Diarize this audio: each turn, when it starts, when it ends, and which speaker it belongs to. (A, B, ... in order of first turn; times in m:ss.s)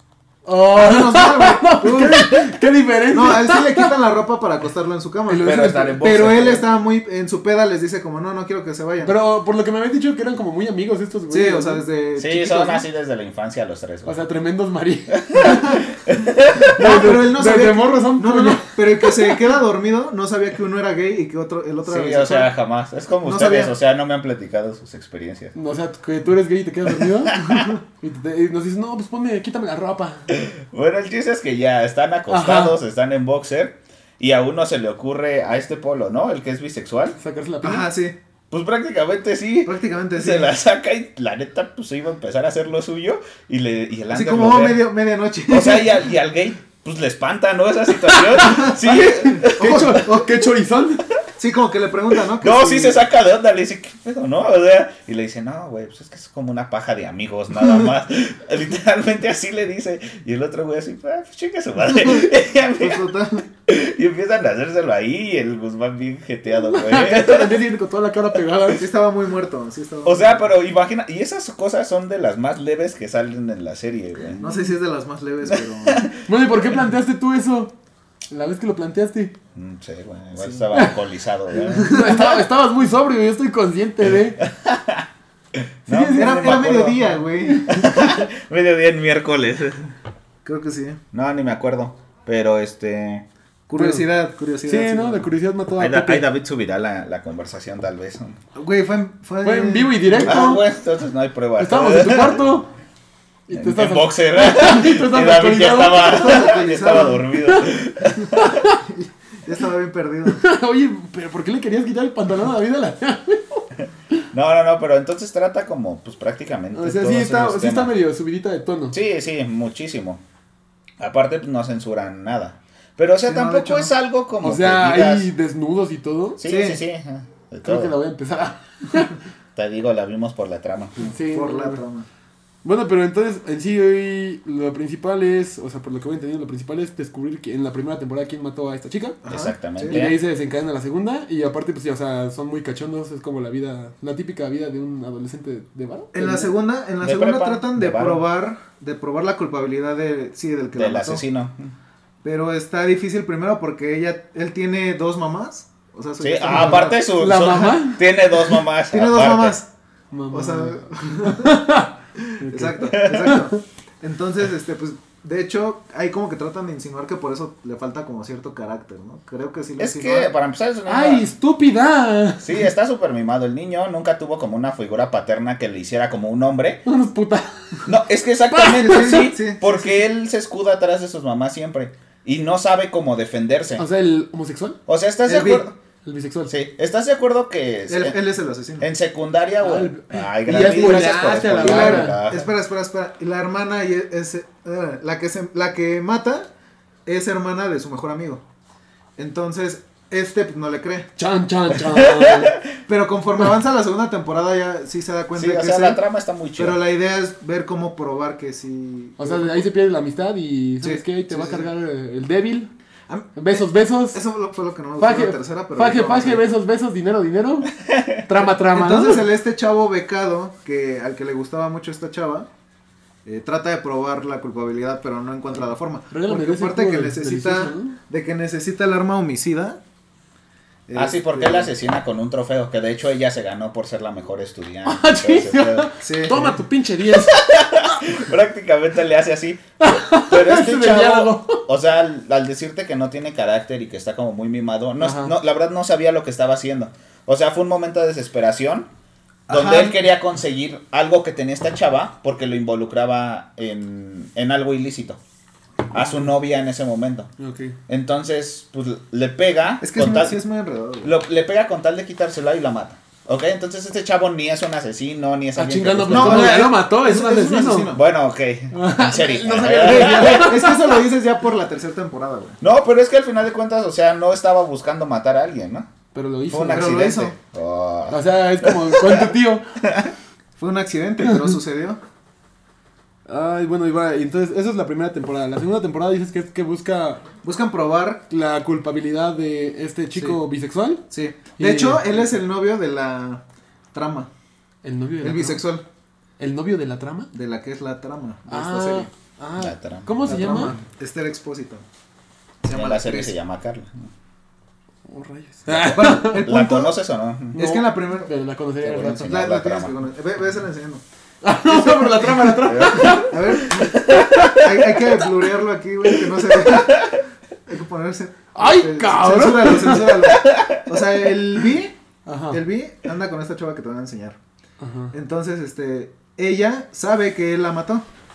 0:00.4-0:03.9 A
0:00.7-0:02.5 B
0:03.1-0:09.1 B
0:05.3-0:06.3 A
0:05.4-0:06.6 C
0:09.0-0:11.8 A
0:11.3-0:12.8 B
0:12.2-0:14.2 C
0:14.0-0:15.8 A
0:15.1-0:16.7 C
0:15.4-0:15.8 B
0:16.5-0:19.4 A
0:16.6-0:22.5 B
0:21.8-0:25.5 C
0:23.2-0:23.7 B
0:25.5-0:30.3 A
0:27.0-0:27.7 C
0:30.3-0:37.2 C
0:32.3-0:32.8 A
0:37.2-0:37.9 A
0:37.6-0:38.2 B
0:38.5-0:44.8 C
0:39.6-0:40.5 B
0:44.1-0:46.0 B
0:45.5-0:50.0 C
0:48.1-0:51.1 A
0:48.4-0:50.2 B
0:51.4-0:53.0 B
0:52.4-1:03.0 C
1:02.0-1:02.2 B
1:02.8-1:03.4 B
1:03.7-1:07.6 C
1:06.5-1:08.9 A
1:08.7-1:10.5 B
1:10.0-1:14.4 C
1:14.4-1:16.1 B
1:15.5-1:16.1 C
1:16.2-1:17.7 A
1:18.3-1:19.4 A
1:19.5-1:22.3 C
1:20.4-1:20.6 B
1:21.6-1:24.4 A
1:24.4-1:25.1 C
1:25.6-1:29.9 C
1:25.9-1:27.8 B
1:25.9-1:26.3 A
1:27.5-1:27.9 A
1:30.4-1:31.0 B
1:31.1-1:33.3 C
1:33.7-1:35.3 B
1:33.8-1:34.1 A
1:34.6-1:36.3 A
1:35.8-1:38.4 C
1:38.5-1:40.4 B
1:39.4-1:40.6 A
1:40.2-1:42.4 C
1:41.6-1:42.7 A
1:43.5-1:46.4 A
1:43.5-1:48.6 C
1:45.9-1:47.3 B
1:48.3-1:48.8 A
1:48.8-1:50.4 B
1:50.3-1:54.2 A
1:54.3-1:57.9 C
1:56.7-1:59.0 A
1:58.9-2:00.2 C
2:01.0-2:05.3 C
2:03.2-2:03.9 B
2:04.4-2:06.4 A
2:06.4-2:08.0 C
2:06.4-2:06.8 B
2:07.6-2:09.2 A
2:09.6-2:11.1 C
2:11.0-2:11.8 A
2:11.2-2:12.1 B
2:12.6-2:19.2 A
2:19.2-2:20.0 B
2:19.3-2:20.2 C
2:19.9-2:26.5 A
2:26.1-2:31.2 B
2:27.0-2:28.2 C
2:30.7-2:31.7 C
2:32.2-2:37.0 B
2:36.2-2:39.6 C
2:36.5-2:38.0 A
2:38.9-2:39.7 B
2:40.1-2:43.5 A
2:40.3-2:41.6 B
2:42.3-2:50.3 B
2:42.9-2:43.4 C
2:49.8-2:51.3 C
2:50.9-2:52.6 A
2:52.4-2:56.8 C
2:56.8-2:57.9 A
2:57.8-3:03.8 C
2:58.5-2:59.3 A
2:58.6-2:59.8 B
3:03.8-3:04.8 A
3:04.9-3:05.7 C
3:05.2-3:05.6 B
3:06.0-3:06.5 A
3:06.5-3:08.2 C
3:07.9-3:08.9 B
3:08.8-3:12.5 C
3:09.6-3:12.2 A
3:10.5-3:16.5 B
3:17.0-3:18.4 B
3:19.2-3:21.1 B
3:21.2-3:22.6 A
3:21.9-3:22.6 C
3:22.9-3:26.0 B
3:25.3-3:26.8 C
3:26.6-3:29.6 B
3:29.2-3:32.7 A
3:30.8-3:31.7 B
3:33.1-3:36.4 B
3:33.4-3:34.2 A
3:35.0-3:37.7 A
3:37.8-3:38.2 C
3:38.2-3:39.3 A
3:38.7-3:42.5 B
3:43.2-3:49.8 B
3:46.1-3:48.0 A
3:50.9-3:51.7 B
3:50.9-3:55.9 C
3:54.8-3:57.5 A
3:56.0-3:56.5 B
3:57.1-3:59.6 C
3:59.8-4:01.6 A
4:00.2-4:08.9 C
4:05.0-4:05.3 A
4:09.5-4:10.0 B
4:09.5-4:15.2 C
4:15.9-4:17.3 C
4:17.4-4:17.8 A
4:17.9-4:20.4 C
4:19.8-4:21.1 B
4:21.0-4:26.7 C
4:25.6-4:28.0 A
4:26.1-4:28.0 B
4:27.9-4:30.5 C
4:28.7-4:30.9 A
4:29.4-4:32.6 B
4:32.6-4:35.9 C
4:36.1-4:37.0 A
4:36.5-4:39.3 C
4:36.7-4:37.4 B
4:38.1-4:39.6 A
4:39.8-4:40.1 C
4:40.6-4:42.0 B
4:43.3-4:47.2 A
4:47.4-4:48.2 B
4:48.3-4:51.0 A
4:51.1-4:53.4 B
4:51.6-4:52.2 A
4:53.9-4:54.3 B
4:54.8-4:55.6 A
4:55.2-4:55.8 B
4:56.4-4:57.3 A
4:57.3-4:59.1 B
4:58.5-5:00.8 A
4:59.6-5:00.2 C
5:00.2-5:01.8 B
5:02.6-5:03.4 B
5:02.7-5:04.1 C
5:05.1-5:06.6 A
5:05.7-5:07.6 C
5:05.9-5:06.9 B
5:07.5-5:08.3 B
5:07.5-5:09.3 A
5:08.8-5:09.9 C
5:09.1-5:11.0 B
5:11.4-5:14.6 A
5:12.6-5:14.7 C
5:13.0-5:22.0 B
5:18.5-5:20.2 A
5:20.3-5:20.8 C
5:22.2-5:22.6 A
5:22.5-5:24.4 B
5:24.8-5:25.1 A
5:25.1-5:28.0 B